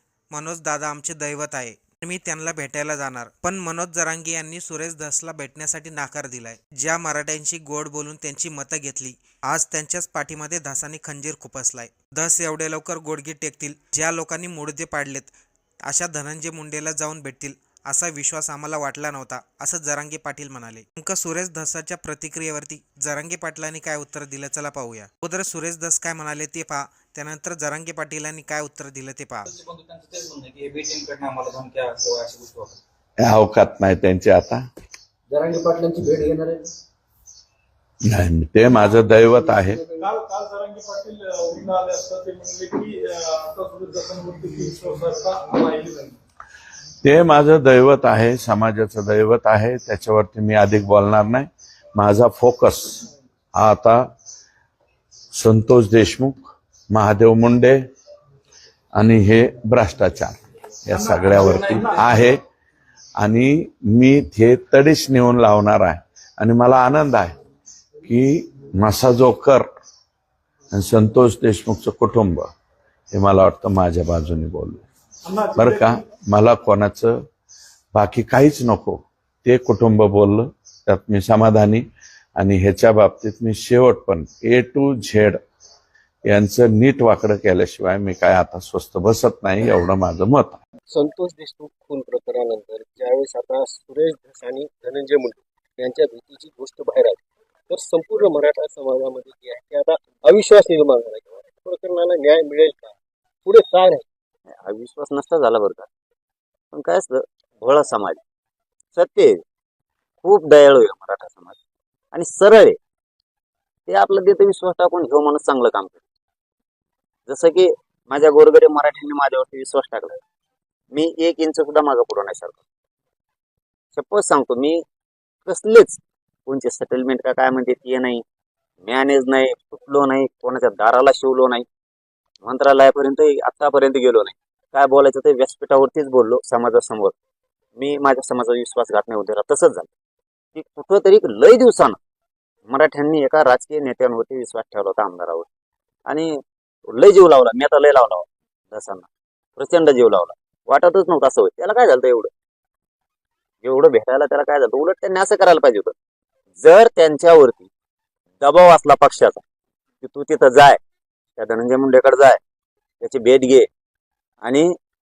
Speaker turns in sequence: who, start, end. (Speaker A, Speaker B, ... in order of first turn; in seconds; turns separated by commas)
Speaker A: 0.3-15.3, Speaker A: 15.8-29.5, Speaker B: 29.5-32.8, Speaker C: 33.2-34.6, Speaker C: 38.0-39.8, Speaker D: 40.0-46.1, Speaker C: 47.0-54.0, Speaker C: 55.4-57.8, Speaker C: 59.0-62.4, Speaker C: 63.2-67.3, Speaker C: 68.0-69.7, Speaker C: 70.7-72.5, Speaker C: 73.1-74.8, Speaker D: 75.3-75.7, Speaker C: 75.5-77.2, Speaker C: 77.9-81.8, Speaker C: 82.4-85.4, Speaker C: 86.3-90.6, Speaker E: 90.9-104.0, Speaker F: 104.6-105.9, Speaker F: 106.7-108.2, Speaker F: 109.0-109.4, Speaker F: 110.2-111.5, Speaker F: 112.1-112.8, Speaker F: 113.9-116.0, Speaker F: 117.3-120.2, Speaker F: 120.9-122.6, Speaker F: 123.9-124.8, Speaker F: 125.5-128.2, Speaker F: 128.8-131.6, Speaker F: 132.4-137.1, Speaker F: 137.8-139.9, Speaker F: 140.5-142.0, Speaker F: 142.7-145.5, Speaker F: 146.1-146.3, Speaker F: 146.9-152.3, Speaker F: 153.6-155.9, Speaker F: 156.6-157.7, Speaker F: 158.4-159.4, Speaker F: 160.0-160.8, Speaker F: 161.4-162.4, Speaker F: 163.0-163.7, Speaker F: 164.4-164.7